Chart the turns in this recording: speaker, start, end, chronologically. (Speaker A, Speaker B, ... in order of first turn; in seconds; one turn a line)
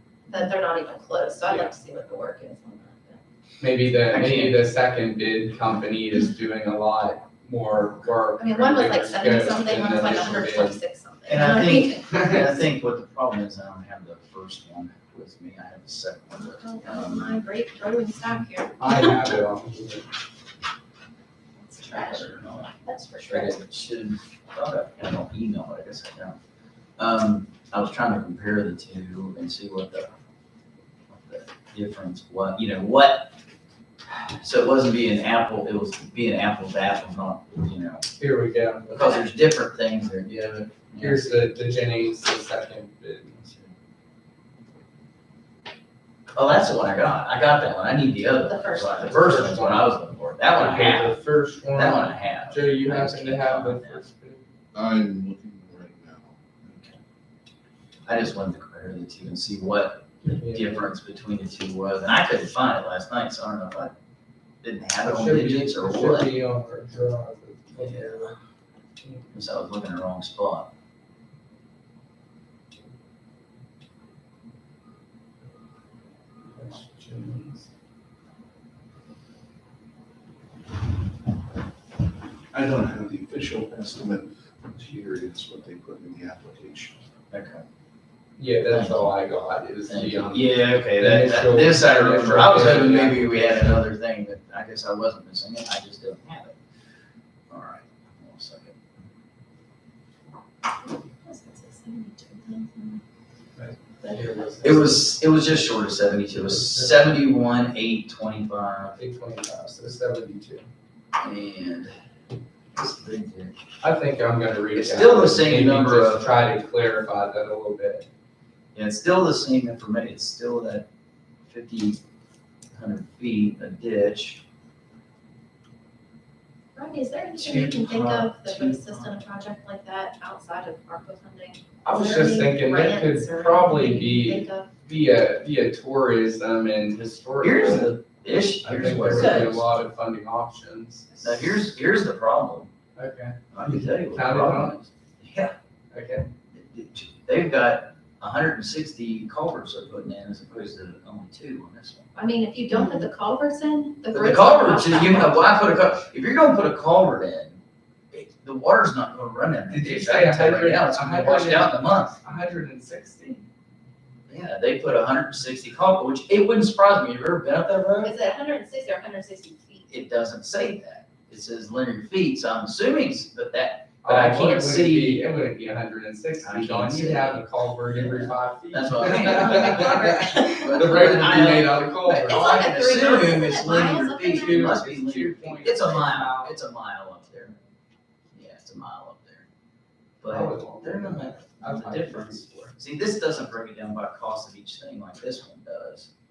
Speaker A: 0.3-3.2
Speaker B: 3.6-10.8
Speaker C: 4.1-4.6
Speaker A: 8.4-12.4
Speaker C: 11.3-17.4
Speaker A: 16.5-19.2
Speaker B: 18.8-20.1
Speaker A: 21.6-23.6
Speaker C: 21.8-26.4
Speaker C: 27.0-30.1
Speaker C: 31.1-33.4
Speaker C: 34.1-38.1
Speaker B: 38.2-39.2
Speaker C: 38.9-41.5
Speaker B: 41.0-43.5
Speaker C: 46.4-54.0
Speaker A: 48.4-49.5
Speaker B: 49.0-49.9
Speaker B: 50.5-54.5
Speaker D: 54.7-56.4
Speaker C: 56.6-57.0
Speaker C: 58.1-63.9
Speaker B: 60.2-60.9
Speaker C: 64.6-66.3
Speaker B: 65.0-68.4
Speaker C: 67.8-68.3
Speaker B: 69.0-69.3
Speaker C: 69.3-70.7
Speaker B: 76.5-77.7
Speaker D: 82.5-87.0
Speaker C: 87.3-87.7
Speaker B: 88.4-93.8
Speaker C: 88.7-89.2
Speaker C: 89.9-96.6
Speaker C: 97.5-99.0
Speaker A: 100.9-103.0
Speaker B: 103.6-105.0
Speaker A: 104.0-104.7
Speaker C: 104.6-109.0
Speaker B: 106.4-107.0
Speaker B: 109.0-110.7
Speaker C: 111.2-112.0
Speaker C: 112.8-113.6
Speaker B: 113.8-118.1
Speaker C: 114.7-116.3
Speaker C: 118.7-120.9
Speaker C: 121.5-122.0
Speaker C: 122.7-124.4
Speaker A: 126.8-134.7
Speaker C: 127.4-129.1
Speaker B: 127.5-127.9
Speaker B: 131.8-138.0
Speaker C: 137.4-139.7
Speaker B: 138.6-141.2
Speaker C: 141.2-142.7
Speaker B: 143.0-144.8
Speaker C: 143.5-145.6
Speaker B: 145.9-146.3
Speaker C: 146.5-152.1
Speaker A: 152.2-155.7
Speaker C: 154.1-162.2
Speaker B: 159.7-163.5
Speaker C: 164.3-168.2
Speaker A: 168.0-169.9
Speaker C: 169.9-175.3
Speaker B: 174.0-182.6
Speaker C: 176.4-187.6
Speaker A: 182.3-184.9
Speaker B: 184.2-186.6
Speaker C: 188.3-189.5
Speaker C: 190.2-196.1
Speaker B: 190.3-192.7